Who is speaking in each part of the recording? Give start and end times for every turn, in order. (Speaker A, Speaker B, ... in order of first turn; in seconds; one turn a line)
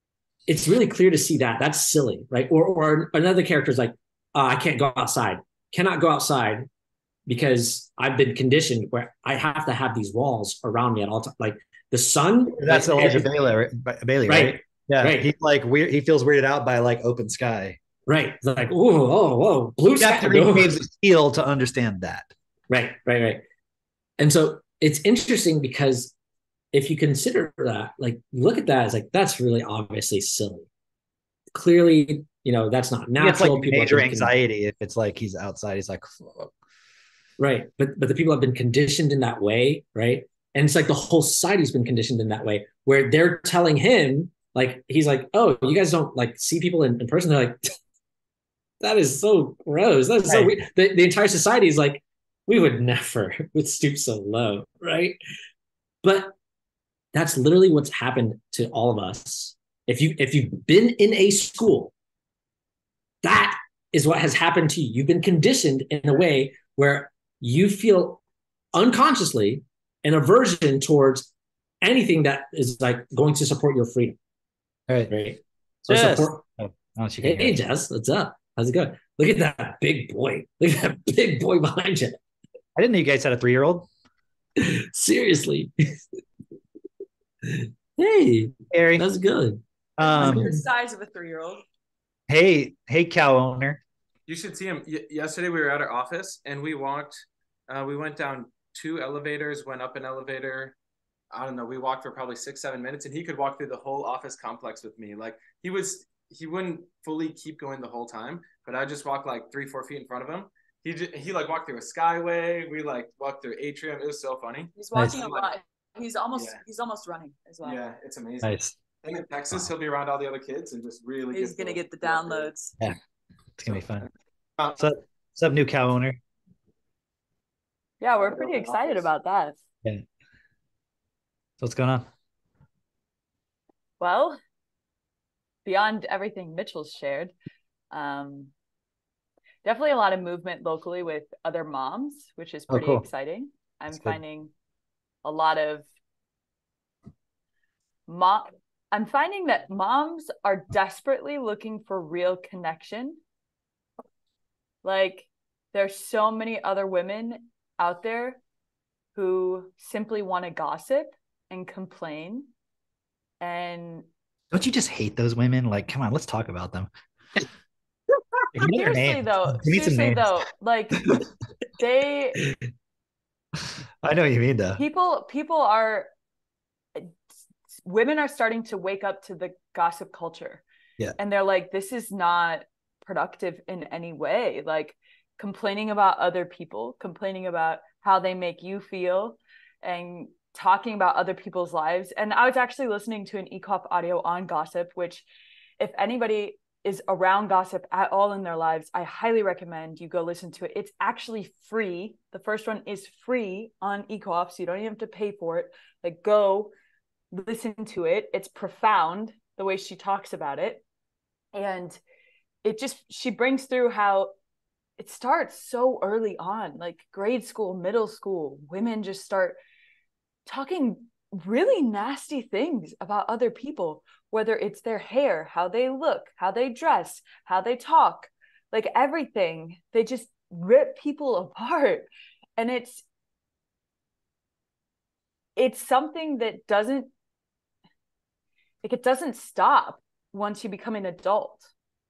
Speaker A: 0.5-6.7
Speaker A: 7.3-13.3
Speaker B: 12.6-17.8
Speaker A: 14.3-15.3
Speaker A: 18.1-20.8
Speaker B: 20.0-22.3
Speaker A: 22.7-23.4
Speaker A: 24.2-26.1
Speaker A: 26.7-30.7
Speaker A: 31.5-34.3
Speaker B: 33.2-36.5
Speaker A: 37.4-47.6
Speaker A: 48.8-55.2
Speaker B: 50.3-50.6
Speaker A: 56.0-56.4
Speaker A: 57.1-61.9
Speaker A: 63.2-68.2
Speaker A: 68.7-71.3
Speaker A: 71.8-74.2
Speaker B: 74.9-75.2
Speaker A: 75.1-76.4
Speaker B: 75.8-77.6
Speaker A: 77.2-82.2
Speaker B: 82.8-83.9
Speaker A: 84.6-86.0
Speaker A: 87.5-89.6
Speaker B: 88.7-89.1
Speaker B: 90.0-90.5
Speaker C: 90.0-91.6
Speaker A: 90.2-90.6
Speaker B: 92.3-93.8
Speaker D: 94.3-97.2
Speaker D: 97.7-100.8
Speaker D: 101.3-115.5
Speaker C: 114.8-117.8
Speaker D: 116.3-116.6
Speaker D: 117.6-122.5
Speaker B: 118.4-118.8
Speaker C: 121.3-122.7
Speaker B: 123.6-124.1
Speaker D: 123.7-124.8
Speaker B: 124.8-126.2
Speaker C: 128.0-129.6
Speaker D: 128.2-129.1
Speaker B: 131.6-132.1
Speaker C: 134.0-134.4
Speaker C: 135.7-137.3
Speaker C: 137.9-138.5
Speaker C: 139.6-144.5
Speaker B: 142.7-143.1
Speaker C: 145.2-145.9
Speaker C: 148.1-153.2
Speaker C: 154.8-158.4
Speaker C: 159.2-162.5
Speaker C: 163.4-164.1
Speaker B: 164.5-166.9
Speaker B: 168.5-170.3
Speaker C: 168.6-171.1
Speaker C: 171.8-172.4
Speaker B: 174.0-174.8
Speaker C: 174.8-176.1
Speaker C: 177.7-180.7
Speaker C: 181.2-195.2
Speaker C: 195.8-206.7
Speaker C: 207.3-210.8
Speaker C: 211.5-212.0
Speaker C: 212.6-214.3
Speaker C: 215.0-219.6
Speaker C: 220.5-233.1
Speaker C: 235.6-237.1
Speaker C: 238.8-241.7